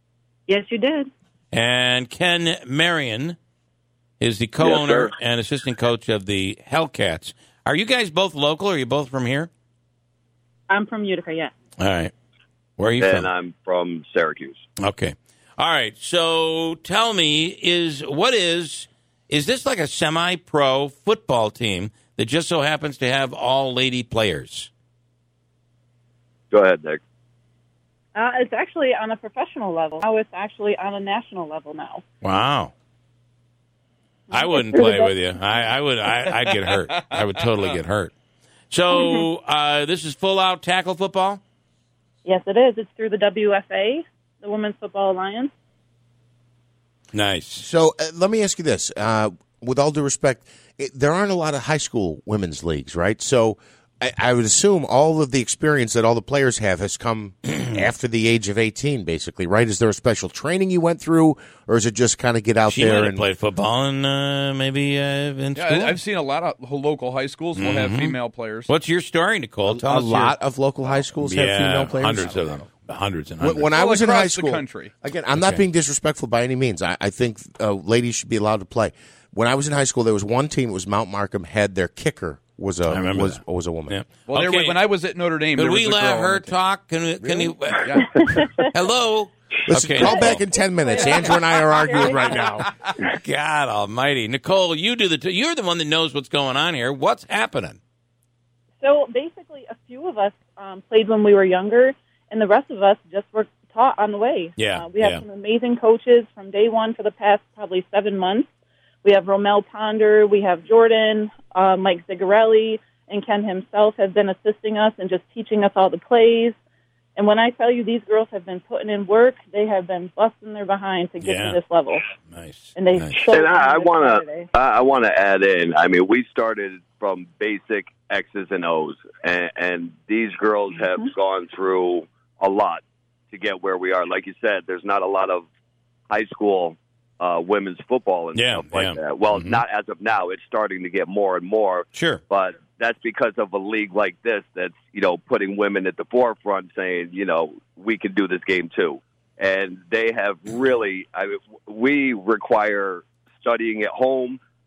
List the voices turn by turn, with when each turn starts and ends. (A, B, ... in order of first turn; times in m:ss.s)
0:00.5-0:01.1 A
0:01.5-0:03.4 B
0:04.2-0:09.5 B
0:04.6-0:05.1 C
0:10.7-0:11.5 A
0:11.8-0:12.1 B
0:12.8-0:13.3 B
0:13.0-0:14.6 C
0:14.8-0:24.7 B
0:26.5-0:27.0 C
0:28.1-0:32.0 A
0:32.2-0:32.7 B
0:34.3-0:35.2 A
0:34.3-0:38.1 B
0:36.1-0:37.8 D
0:38.7-0:41.4 B
0:38.9-0:39.2 A
0:42.2-0:45.5 A
0:47.1-0:47.6 B
0:47.6-1:03.2 E
1:02.6-1:06.0 B
1:05.5-1:08.7 D
1:07.5-1:10.4 B
1:09.6-1:12.6 E
1:11.2-1:13.7 B
1:13.4-1:24.0 E
1:13.7-1:14.9 D
1:15.3-1:15.6 B
1:22.9-1:24.8 B
1:24.2-1:26.6 D
1:25.6-1:30.4 B
1:27.3-1:28.2 D
1:29.7-1:32.7 E
1:30.0-1:32.5 A
1:32.3-1:32.7 D
1:33.1-1:37.8 B
1:38.8-1:48.5 A
1:44.6-1:45.2 B
1:49.0-1:56.5 A
1:57.2-2:02.1 A
2:01.2-2:01.6 B
2:02.3-2:03.3 B
2:02.8-2:04.5 A
2:03.3-2:15.4 C
2:10.7-2:11.0 A
2:16.1-2:34.4 C
2:18.3-2:19.6 B
2:21.9-2:22.2 B